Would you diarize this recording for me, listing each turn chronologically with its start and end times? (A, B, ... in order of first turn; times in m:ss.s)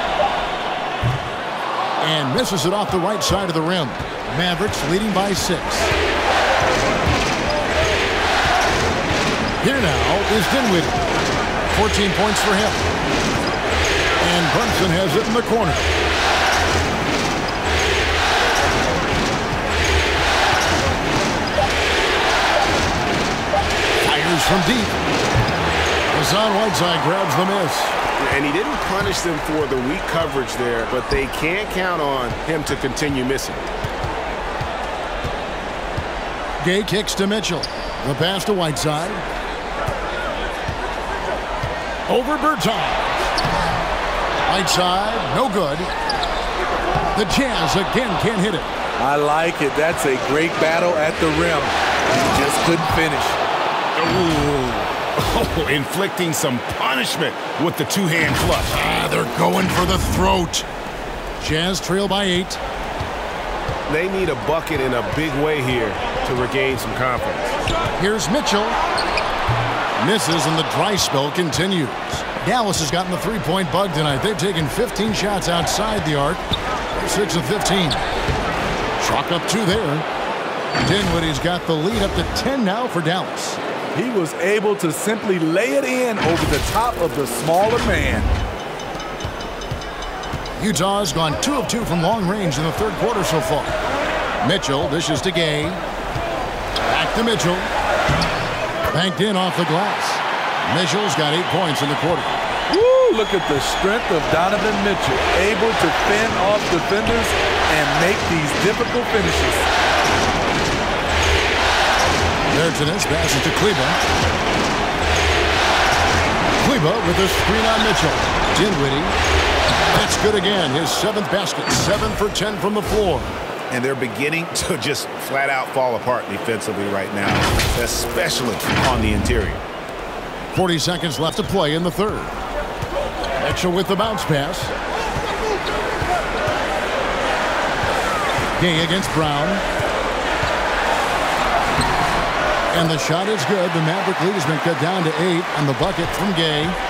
0:02.0-0:05.9 A
0:09.6-0:11.0 A
0:11.7-0:12.9 A
0:14.2-0:15.9 A
0:24.0-0:25.0 A
0:26.1-0:28.0 A
0:28.2-0:33.6 B
0:36.6-0:39.2 A
0:42.1-0:43.1 A
0:44.5-0:45.9 A
0:47.1-0:48.7 A
0:49.0-0:53.4 C
0:54.0-0:58.8 B
0:58.7-1:00.7 A
1:01.4-1:02.6 A
1:03.9-1:07.6 B
1:08.0-1:08.8 A
1:10.0-1:18.0 A
1:19.0-1:20.0 A
1:20.7-1:23.6 A
1:23.9-1:28.3 C
1:30.6-1:33.8 A
1:34.4-1:35.8 A
1:36.8-1:37.7 A
1:38.9-1:42.4 A
1:42.7-1:49.7 C
1:52.5-1:54.0 A
1:56.6-1:59.2 A
1:59.9-2:03.3 A
2:03.7-2:09.6 B
2:10.5-2:12.4 A
2:13.4-2:14.7 A
2:18.6-2:19.6 A
2:22.7-2:26.8 A